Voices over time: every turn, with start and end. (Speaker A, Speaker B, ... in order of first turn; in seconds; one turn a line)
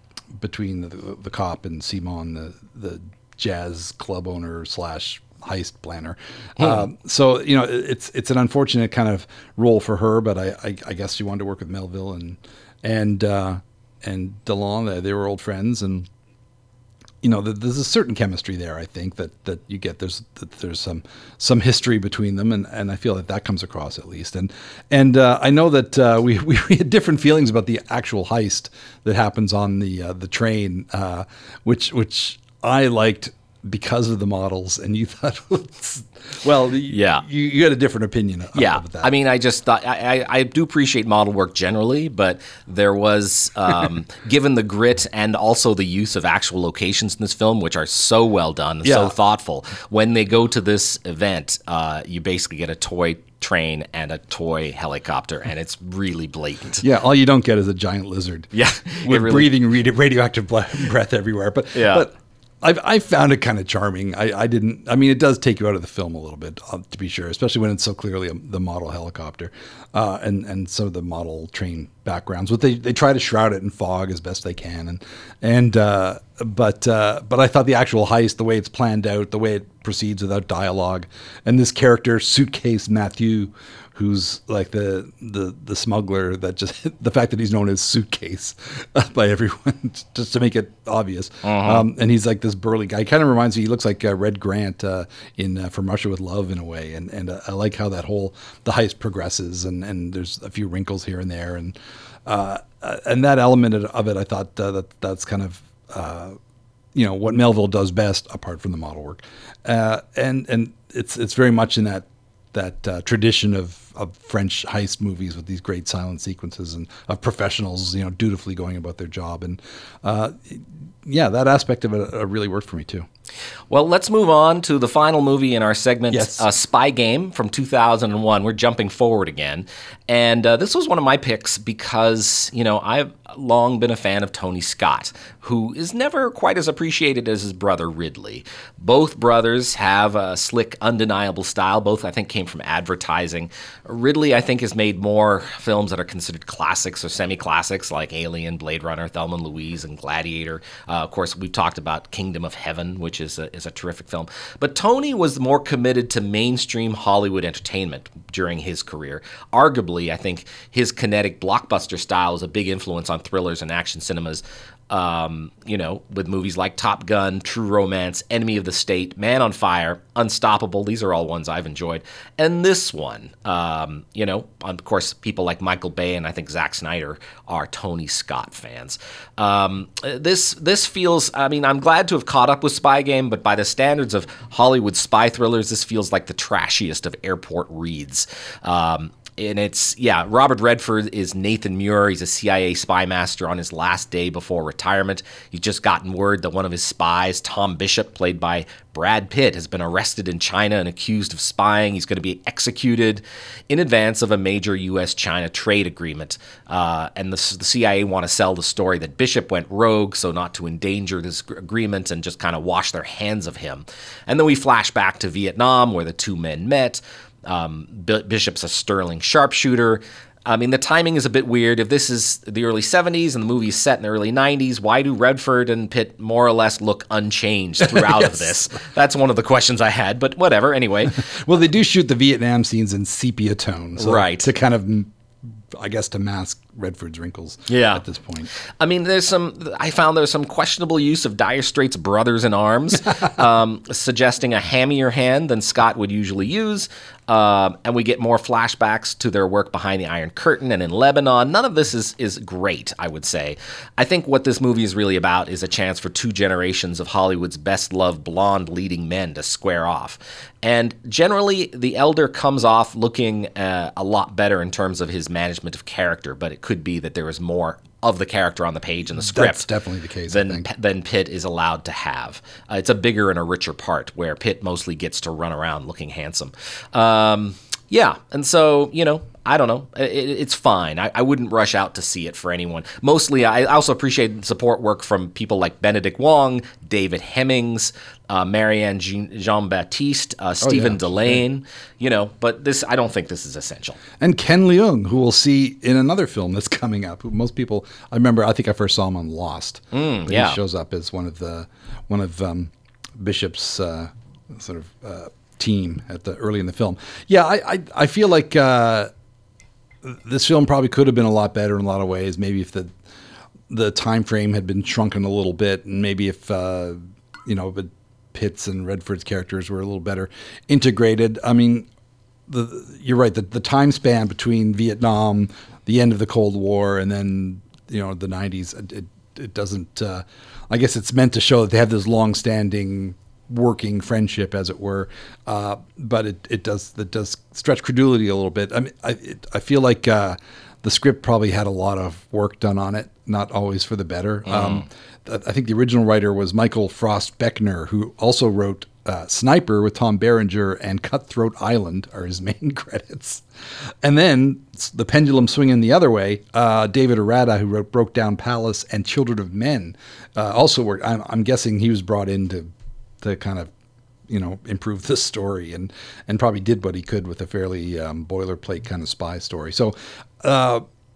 Speaker A: 0.3-16.1
Speaker B: 6.6-6.8
Speaker A: 17.2-39.1
Speaker B: 36.9-37.2
Speaker B: 38.5-56.8
Speaker A: 48.8-49.1
Speaker A: 56.8-106.4
Speaker B: 58.5-59.5
Speaker B: 61.7-62.1
Speaker B: 91.4-91.9
Speaker A: 106.9-123.0
Speaker B: 123.7-231.3
Speaker A: 126.1-126.4
Speaker A: 227.8-228.5
Speaker A: 231.3-235.1
Speaker B: 234.0-234.5
Speaker A: 235.7-238.5
Speaker B: 237.7-238.0
Speaker B: 238.8-269.7
Speaker A: 269.1-270.6
Speaker B: 270.3-294.0
Speaker A: 290.6-291.4
Speaker A: 294.2-309.1
Speaker B: 299.9-300.6
Speaker A: 310.0-312.9
Speaker A: 313.7-321.9
Speaker A: 322.5-363.7
Speaker B: 344.5-344.8
Speaker A: 364.3-370.8